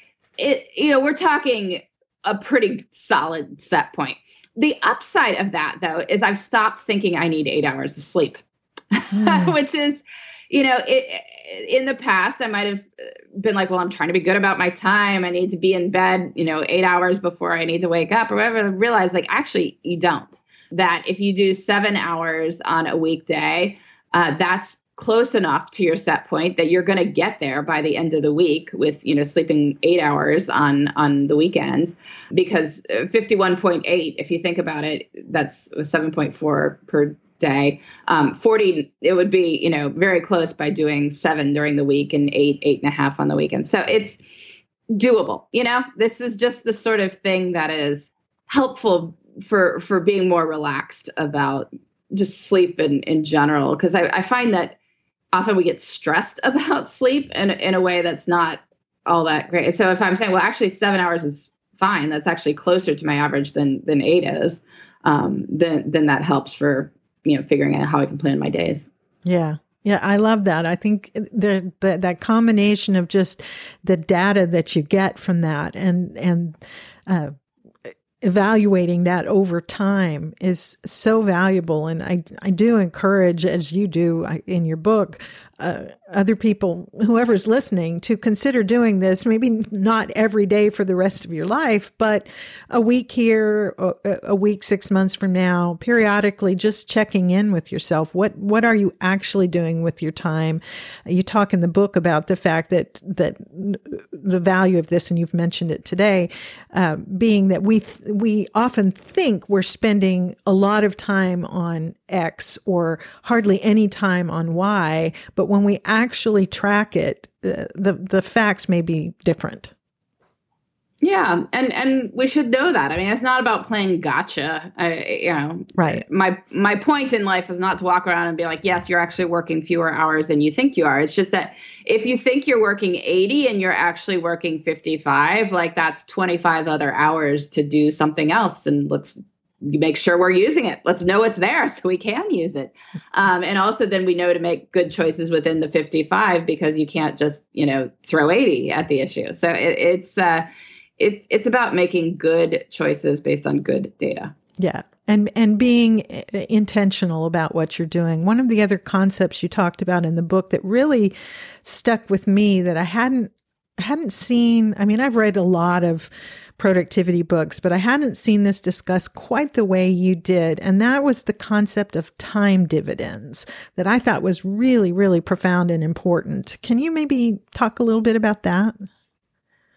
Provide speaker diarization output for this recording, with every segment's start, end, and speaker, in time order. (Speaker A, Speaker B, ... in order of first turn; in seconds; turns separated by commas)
Speaker A: 0.4-44.2, Speaker B: 9.1-9.6, Speaker A: 44.9-54.8, Speaker A: 55.3-68.9, Speaker B: 69.2-77.3, Speaker B: 78.2-119.7, Speaker A: 121.0-150.5, Speaker B: 125.8-126.0, Speaker A: 151.0-154.3, Speaker B: 154.6-178.8